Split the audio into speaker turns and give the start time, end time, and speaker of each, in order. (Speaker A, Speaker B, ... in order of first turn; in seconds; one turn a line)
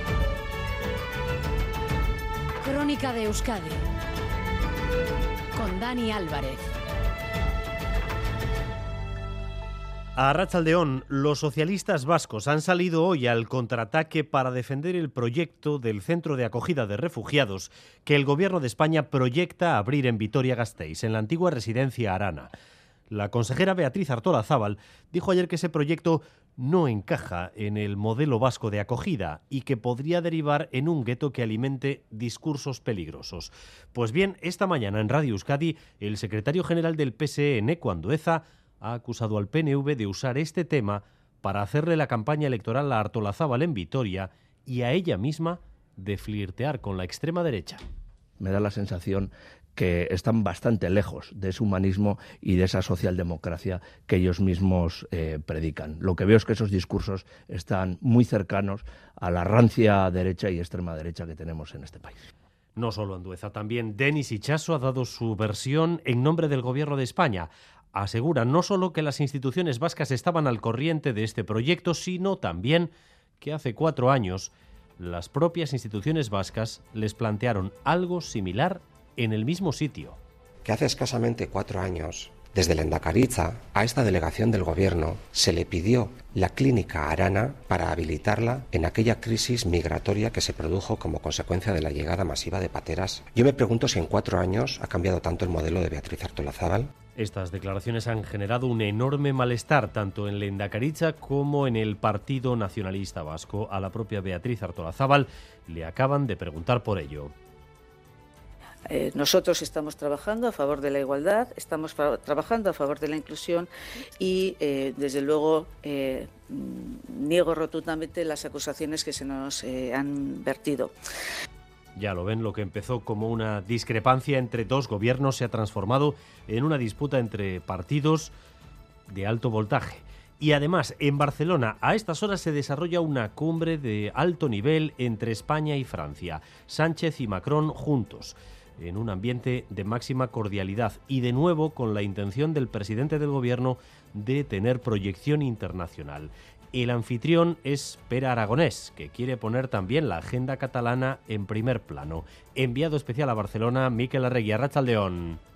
Speaker A: 2.6-3.8
Speaker A: 5.5-6.6
Speaker B: 10.2-22.5
Speaker B: 23.1-47.8
Speaker C: 48.4-62.3
Speaker B: 62.8-80.2
Speaker D: 80.7-96.9
Speaker B: 97.2-107.3
Speaker E: 109.3-113.5
Speaker E: 114.9-115.4
Speaker E: 117.4-119.9
Speaker B: 122.0-128.3
Speaker B: 129.1-155.4